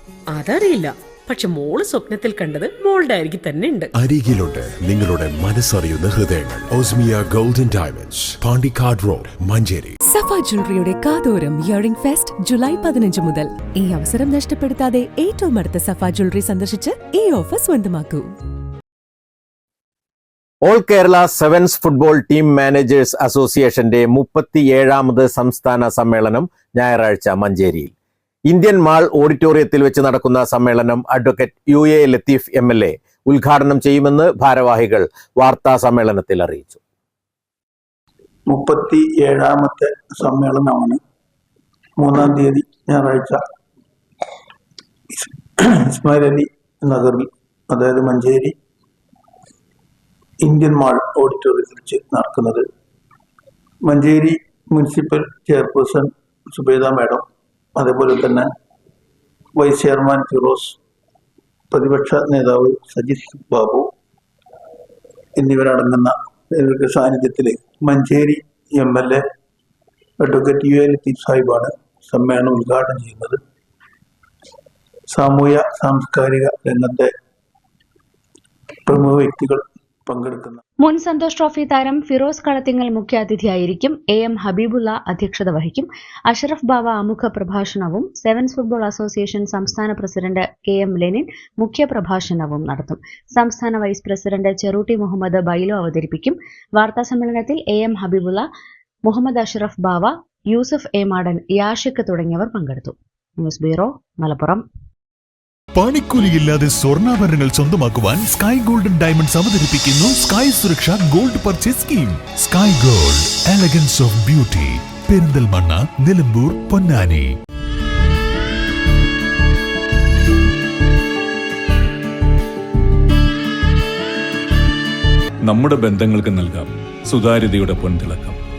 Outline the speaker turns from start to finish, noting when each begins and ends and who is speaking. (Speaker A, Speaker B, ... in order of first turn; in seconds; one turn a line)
Speaker A: 0.3-3.9
Speaker B: 4.0-10.0
Speaker C: 10.1-18.3
Speaker D: 20.6-27.9
Speaker D: 28.5-36.8
Speaker E: 38.5-41.0
Speaker E: 42.0-43.4
Speaker E: 45.1-48.5
Speaker E: 50.4-52.7
Speaker E: 53.8-57.2
Speaker E: 57.8-58.5
Speaker E: 59.5-60.8
Speaker E: 61.7-63.9
Speaker E: 65.4-69.2
Speaker E: 70.2-73.4
Speaker E: 75.1-77.1
Speaker E: 78.9-80.6
Speaker F: 80.8-98.5
Speaker F: 99.1-104.6
Speaker G: 105.8-117.2
Speaker H: 125.4-128.4